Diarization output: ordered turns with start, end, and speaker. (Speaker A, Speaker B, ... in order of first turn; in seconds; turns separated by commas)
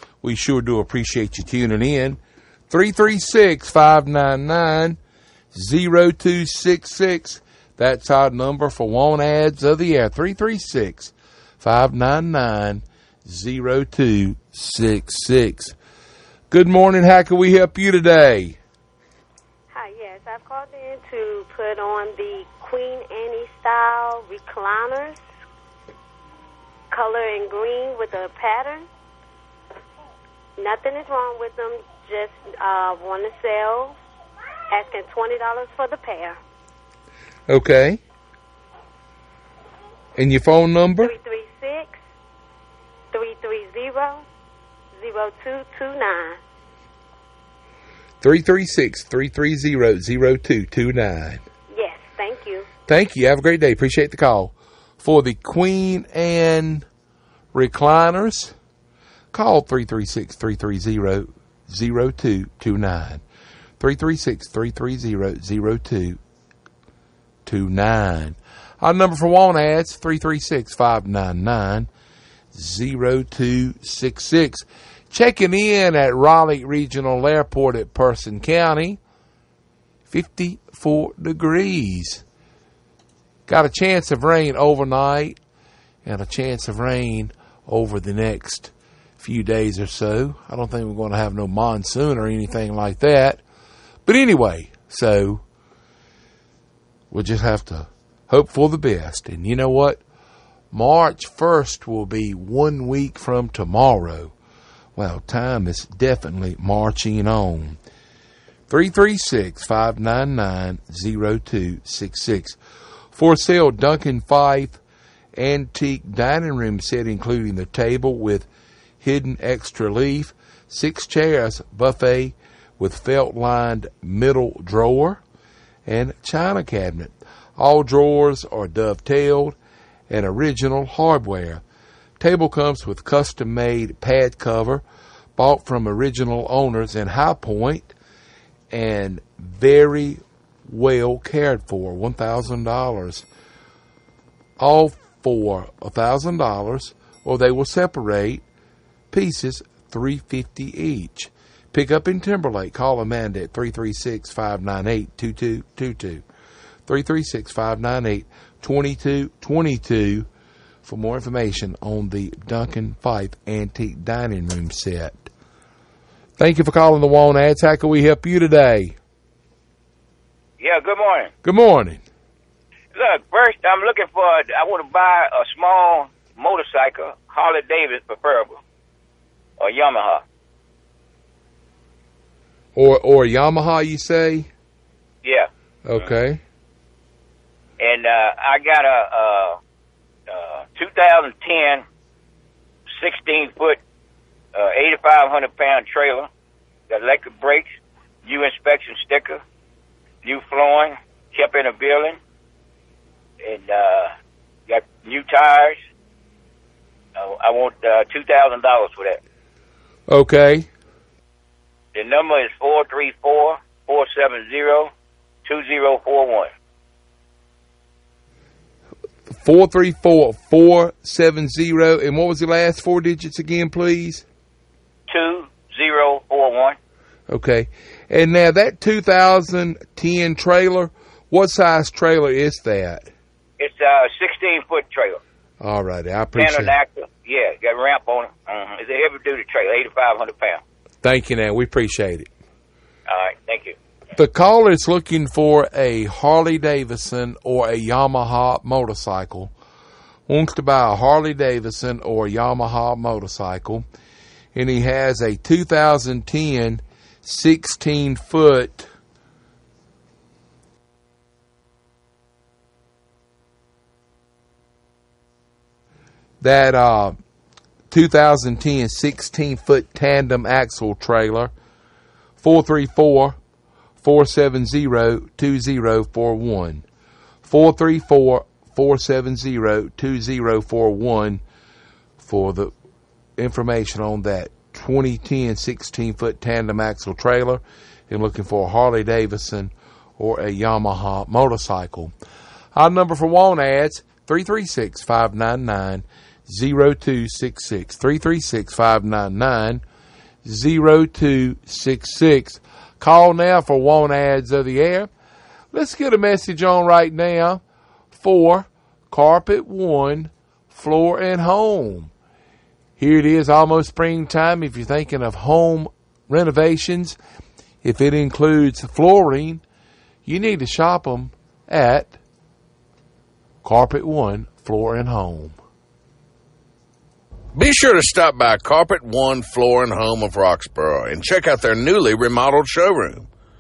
Speaker A: 0.2-5.0, Speaker A: 5.5-15.8, Speaker A: 16.5-18.6, Speaker B: 19.7-25.2, Speaker B: 26.9-28.9, Speaker B: 30.6-34.0, Speaker B: 34.7-36.4, Speaker A: 37.5-38.0, Speaker A: 40.2-41.1, Speaker B: 41.0-42.0, Speaker B: 43.1-44.2, Speaker B: 45.0-46.4, Speaker A: 48.2-51.4, Speaker B: 51.7-52.7, Speaker A: 52.9-56.9, Speaker A: 57.5-58.5, Speaker A: 59.3-63.2, Speaker A: 63.8-66.2, Speaker A: 67.5-71.9, Speaker A: 72.5-79.0, Speaker A: 80.1-82.2, Speaker A: 83.5-85.4, Speaker A: 86.0-93.4, Speaker A: 94.1-95.4, Speaker A: 97.1-100.0, Speaker A: 100.7-104.3, Speaker A: 105.0-107.8, Speaker A: 108.7-112.6, Speaker A: 113.1-114.8, Speaker A: 115.4-118.5, Speaker A: 119.0-125.2, Speaker A: 125.9-129.6, Speaker A: 130.1-131.6, Speaker A: 132.2-134.8, Speaker A: 135.4-137.9, Speaker A: 138.7-143.3, Speaker A: 144.6-148.4, Speaker A: 149.1-156.2, Speaker A: 156.9-160.3, Speaker A: 160.8-165.3, Speaker A: 166.4-169.0, Speaker C: 170.6-171.3, Speaker A: 171.4-172.0, Speaker C: 172.9-178.6, Speaker C: 179.6-180.2, Speaker A: 182.8-184.5, Speaker A: 185.8-186.4, Speaker C: 187.8-189.6, Speaker C: 190.3-191.8, Speaker C: 193.0-193.8, Speaker C: 194.6-196.3, Speaker C: 196.9-197.7, Speaker C: 198.2-199.4, Speaker C: 200.2-202.2, Speaker C: 203.4-204.1, Speaker C: 204.7-205.8, Speaker C: 207.2-209.2, Speaker A: 210.1-210.7, Speaker C: 211.9-214.9, Speaker C: 215.4-216.5, Speaker A: 219.3-224.2, Speaker C: 225.1-226.8, Speaker A: 227.3-233.1, Speaker C: 233.6-235.2, Speaker A: 235.6-236.8, Speaker C: 236.3-240.6, Speaker A: 241.0-242.3, Speaker C: 243.1-243.8, Speaker A: 244.2-249.5, Speaker A: 250.3-253.9, Speaker A: 254.6-258.9, Speaker A: 266.4-267.2, Speaker A: 267.9-271.5, Speaker A: 272.4-273.4, Speaker A: 274.0-276.8, Speaker A: 277.4-281.4, Speaker A: 282.2-282.7, Speaker A: 283.4-292.1, Speaker A: 292.8-299.8, Speaker A: 300.4-305.1, Speaker A: 305.7-307.6, Speaker A: 308.1-312.1, Speaker A: 313.0-317.2, Speaker A: 317.8-319.6, Speaker A: 320.2-322.2, Speaker A: 323.6-325.6, Speaker D: 327.6-333.3